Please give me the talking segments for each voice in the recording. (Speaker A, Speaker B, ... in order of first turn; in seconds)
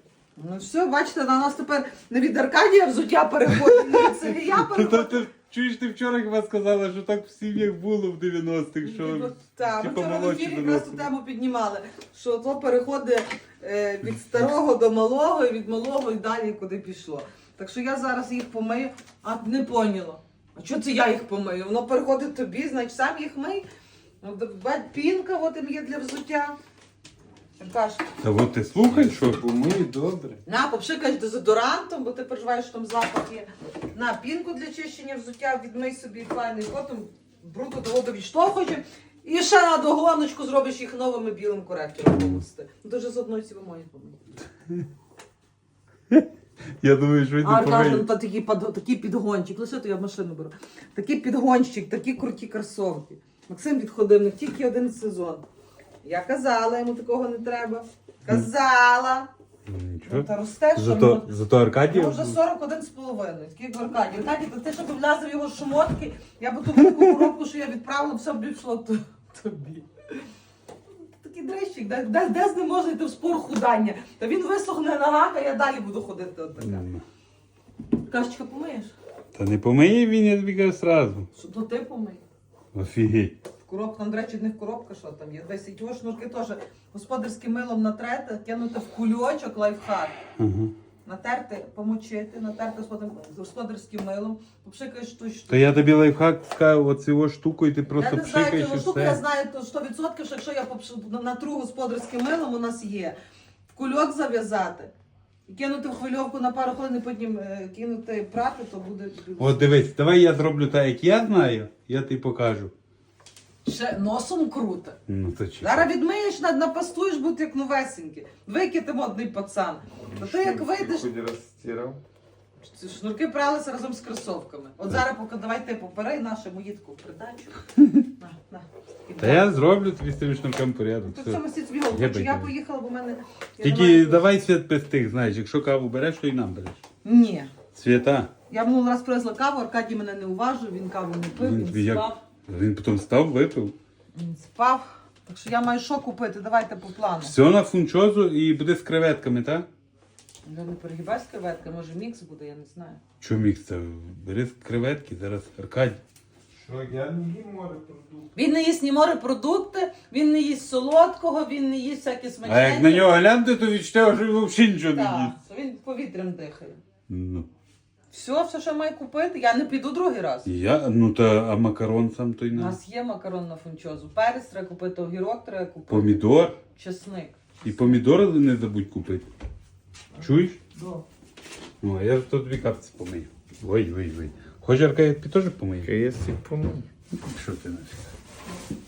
Speaker A: 0.4-5.2, 8.8-23.6, 24.2-26.6, 27.6-28.1, 30.5-44.2, 47.4-55.4, 56.0-59.3, 60.0-61.3, 61.9-70.3, 71.1-76.9, 78.1-78.9, 81.3-82.2, 83.7-90.2, 91.0-95.8, 97.9-103.2, 103.7-104.9, 105.5-109.8, 113.7-115.0, 115.6-121.1, 122.7-127.6, 128.2-129.6, 131.1-134.3, 137.0-137.5, 138.5-142.2, 144.1-147.3, 150.5-153.0, 158.3-163.2, 164.9-166.8, 168.1-170.5, 172.5-176.2, 176.7-178.1, 180.2-181.0
Speaker B: 4.0-11.1, 28.2-29.4, 42.1-42.4, 46.8-48.1, 59.7-62.4, 76.6-77.0, 79.3-81.3, 82.7-83.3, 90.4-90.7, 95.5-99.2, 109.4-112.7, 115.1-115.9, 129.2-132.5, 133.6-136.8, 137.8-138.3, 141.4-143.8, 147.2-149.7, 153.2-156.0, 162.4-165.3, 167.1-167.5, 170.4-172.8, 175.9-176.6, 177.7-179.3, 180.2-180.6, 181.8-185.9, 187.1-188.1
Speaker C: 28.9-30.4, 120.1-122.0, 156.6-158.3, 185.8-186.9